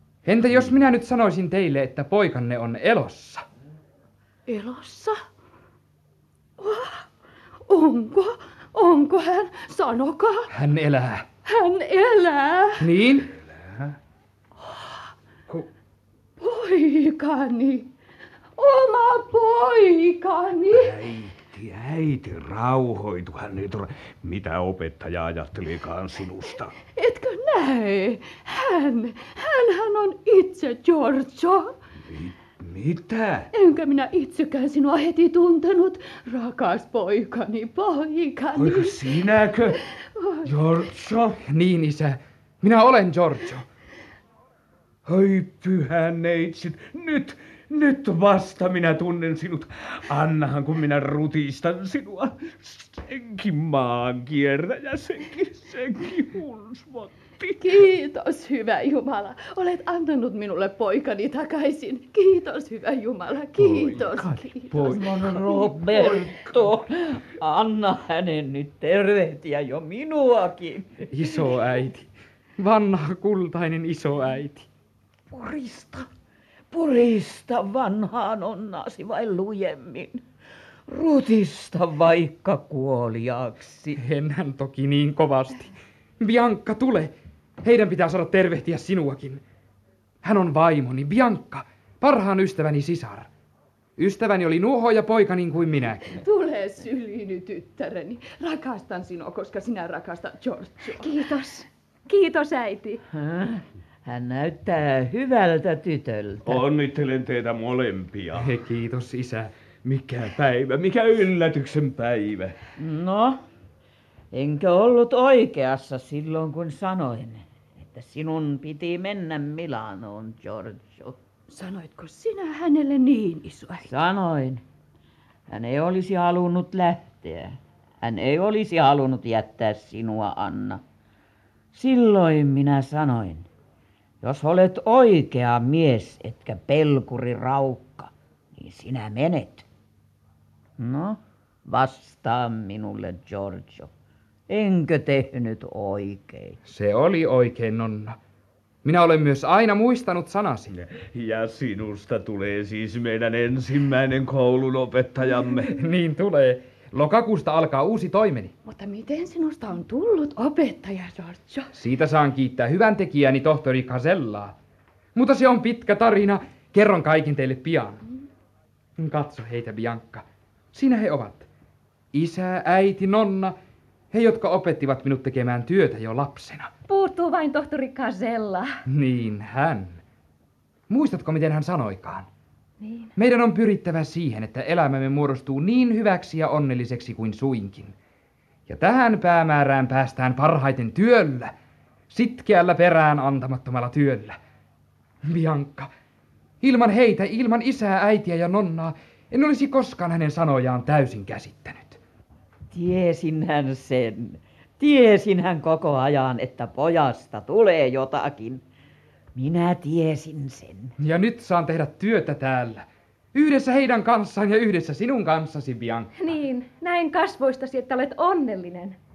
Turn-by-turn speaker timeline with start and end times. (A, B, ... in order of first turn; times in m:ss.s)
0:00.2-0:03.4 A
0:04.5-0:05.2 B
0:06.6-0:07.0 B
0:07.7-0:10.5 B
0:10.5-0:11.2 A
0:11.4-0:12.9 B
0:12.8-0:13.3 A
0:13.4-0:13.9 C
0:14.6-0:15.0 B
0:16.4-0:17.9 B
0:18.6-0:20.9 B
0:20.7-0:26.7 C
0:26.9-0:31.7 B
0:32.1-0:33.5 C
0:33.5-0:39.2 B
0:38.5-0:39.8 C
0:40.1-0:40.4 B
0:40.4-0:41.4 C
0:41.5-0:43.6 A
0:45.0-0:57.8 C
0:57.6-1:05.6 B
1:04.7-1:11.3 D
1:11.1-1:12.1 A
1:12.6-1:14.7 A
1:15.3-1:16.1 D
1:16.7-1:20.2 D
1:20.9-1:24.0 D
1:24.0-1:29.4 A
1:30.2-1:33.3 A
1:34.0-1:36.2 A
1:36.1-1:41.1 B
1:41.0-1:43.0 E
1:43.1-1:46.6 D
1:46.4-1:48.6 C
1:48.4-1:49.5 A
1:49.8-1:52.6 C
1:52.8-1:53.4 D
1:54.3-2:01.2 D
2:01.5-2:03.9 B
2:03.8-2:04.6 D
2:05.5-2:10.8 D
2:11.7-2:13.5 D
2:14.2-2:19.6 D
2:20.8-2:23.9 D
2:24.5-2:26.6 D
2:26.6-2:28.2 A
2:28.8-2:30.7 A
2:30.8-2:35.7 C
2:35.7-2:38.5 A
2:38.6-2:41.7 B
2:41.7-2:44.5 A
2:45.1-2:48.0 A
2:49.0-2:51.5 A
2:52.1-2:53.5 A
2:54.1-2:56.7 A
2:56.9-2:58.7 E
2:58.8-3:00.0 A
3:00.9-3:02.3 A
3:02.8-3:03.1 E
3:03.2-3:07.9 A
3:08.7-3:11.5 A
3:12.1-3:14.4 A
3:15.2-3:15.9 A
3:16.6-3:22.0 A
3:22.7-3:28.6 D
3:29.3-3:30.9 D
3:31.0-3:36.1 A
3:36.2-3:39.0 E